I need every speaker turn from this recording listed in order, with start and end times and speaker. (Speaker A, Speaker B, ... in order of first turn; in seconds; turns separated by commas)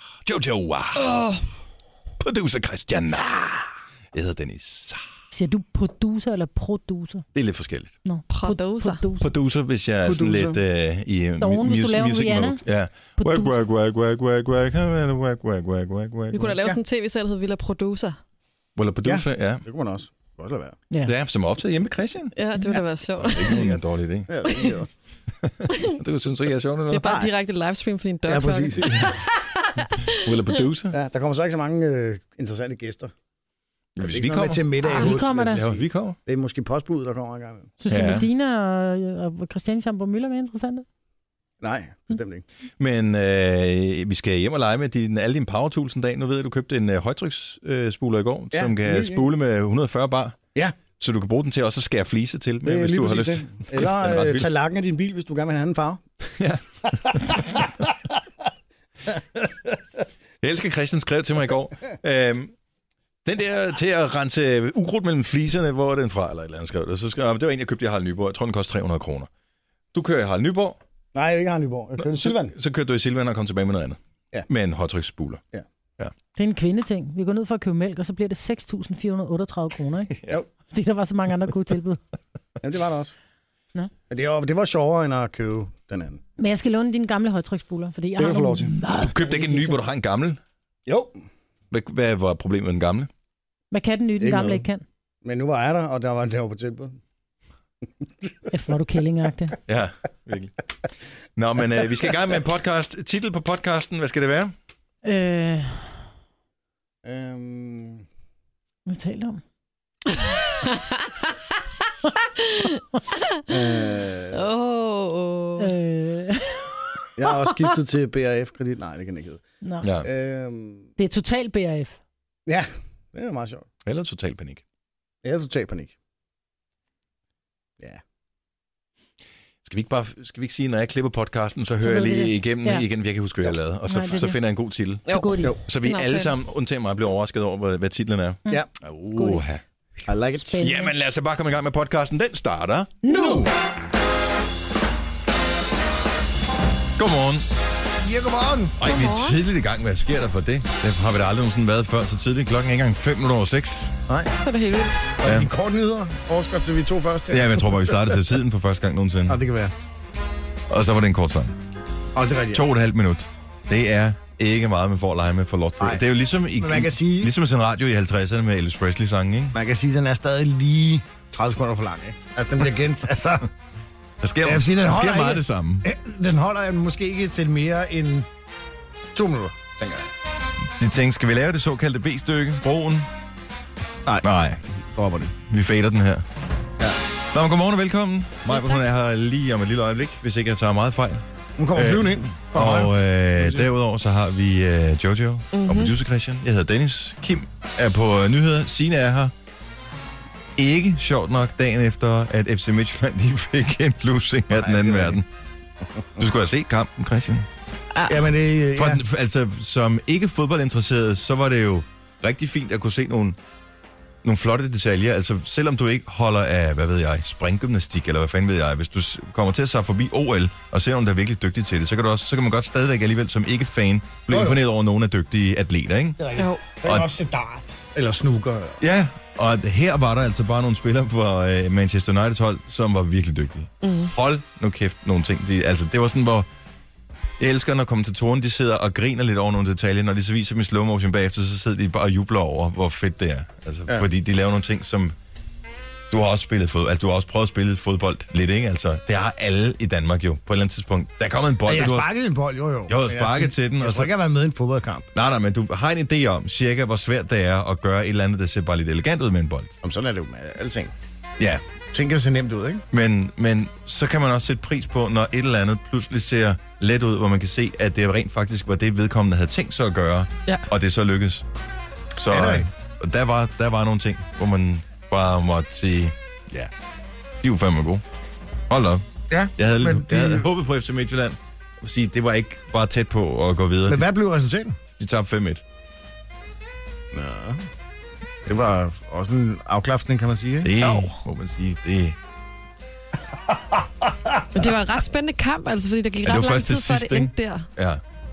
Speaker A: 0.2-1.1, Speaker B: 1.0-1.4, Speaker A: 2.2-5.0, Speaker C: 5.3-7.2, Speaker A: 7.3-7.9, Speaker C: 8.0-9.3, Speaker B: 8.3-9.0, Speaker A: 9.2-16.6, Speaker D: 10.0-10.6, Speaker C: 11.4-12.6, Speaker C: 13.2-13.5, Speaker B: 16.3-18.2, Speaker A: 18.8-19.6, Speaker D: 19.0-20.8, Speaker A: 21.1-22.3, Speaker B: 22.4-23.7, Speaker A: 23.2-24.3, Speaker D: 24.3-24.9, Speaker B: 24.4-24.8, Speaker A: 25.4-27.2, Speaker B: 26.9-29.2, Speaker D: 27.0-27.3, Speaker D: 28.2-28.9, Speaker A: 28.8-29.1, Speaker A: 30.1-30.9, Speaker D: 30.9-33.1, Speaker A: 34.0-36.2, Speaker D: 34.0-37.7, Speaker C: 34.8-35.6, Speaker C: 37.8-40.8, Speaker A: 37.9-38.3, Speaker D: 41.6-42.4, Speaker A: 42.8-50.4, Speaker D: 48.5-49.3, Speaker A: 51.0-54.5, Speaker D: 52.6-56.0, Speaker A: 56.2-57.6, Speaker D: 57.1-57.7, Speaker D: 59.1-59.8, Speaker A: 60.4-62.5, Speaker A: 63.2-69.3, Speaker A: 69.9-70.8, Speaker D: 71.1-72.5, Speaker A: 72.0-75.4, Speaker C: 76.3-80.1, Speaker C: 80.7-82.0, Speaker D: 82.6-83.1, Speaker D: 84.1-86.2, Speaker C: 86.4-89.8, Speaker D: 88.2-88.7, Speaker A: 89.1-90.4, Speaker D: 90.8-91.2, Speaker A: 91.7-93.1, Speaker C: 93.7-94.8, Speaker D: 94.2-94.6, Speaker D: 95.2-97.0, Speaker C: 98.5-99.6, Speaker A: 99.7-100.5, Speaker A: 101.3-104.5, Speaker C: 105.0-106.0, Speaker D: 107.0-108.0, Speaker C: 108.9-109.4, Speaker D: 113.5-114.4, Speaker B: 114.3-115.7, Speaker C: 115.6-117.7, Speaker D: 117.2-119.4, Speaker A: 119.8-120.1, Speaker D: 120.0-120.9, Speaker C: 121.0-122.0, Speaker D: 122.5-123.7, Speaker A: 123.8-124.6, Speaker D: 125.2-125.9, Speaker A: 129.6-135.0, Speaker C: 131.8-132.8, Speaker C: 133.9-134.4, Speaker B: 135.1-136.3, Speaker C: 135.1-135.5, Speaker A: 135.7-139.6, Speaker C: 138.4-139.4, Speaker D: 140.1-140.7, Speaker C: 140.4-140.9, Speaker A: 140.6-142.9, Speaker C: 143.0-143.5, Speaker D: 143.1-143.5, Speaker A: 147.0-147.4, Speaker D: 148.0-148.8, Speaker A: 148.8-153.9, Speaker B: 148.8-149.4, Speaker D: 154.1-154.3, Speaker B: 154.4-155.1, Speaker D: 155.2-158.2, Speaker A: 155.2-155.5, Speaker A: 157.3-159.4, Speaker D: 159.3-159.7, Speaker A: 160.7-161.6, Speaker D: 162.1-162.7, Speaker A: 162.5-169.6, Speaker D: 165.8-167.3, Speaker D: 169.5-173.5, Speaker A: 174.2-175.9, Speaker D: 174.4-178.3, Speaker D: 179.1-180.1, Speaker A: 180.8-183.1, Speaker D: 184.0-185.3, Speaker A: 184.2-184.6, Speaker A: 185.4-186.2, Speaker A: 187.3-199.3, Speaker B: 188.5-188.8, Speaker D: 191.6-193.7, Speaker B: 195.5-195.9, Speaker A: 200.6-205.2, Speaker D: 204.5-205.2, Speaker D: 205.9-206.2, Speaker A: 206.2-207.5, Speaker B: 207.9-208.2, Speaker D: 208.1-209.0, Speaker A: 208.8-213.4, Speaker A: 214.2-226.2, Speaker D: 224.3-224.6, Speaker D: 226.2-228.8, Speaker B: 226.3-226.6, Speaker A: 226.8-227.1, Speaker A: 228.8-236.5, Speaker B: 233.8-234.1, Speaker A: 237.4-245.1, Speaker A: 246.1-252.1, Speaker D: 251.6-255.1, Speaker A: 252.9-254.1, Speaker A: 255.1-259.7, Speaker D: 259.8-260.9, Speaker D: 261.9-262.8, Speaker A: 262.9-271.4, Speaker A: 272.1-276.7, Speaker D: 272.3-272.7, Speaker A: 277.4-278.0, Speaker A: 278.7-279.0, Speaker D: 279.3-280.5, Speaker A: 279.6-284.1, Speaker D: 283.9-284.8, Speaker A: 285.0-285.6, Speaker D: 287.1-287.6, Speaker D: 288.4-291.1, Speaker A: 290.6-292.1, Speaker D: 293.5-294.5, Speaker B: 294.5-297.7, Speaker A: 296.2-298.0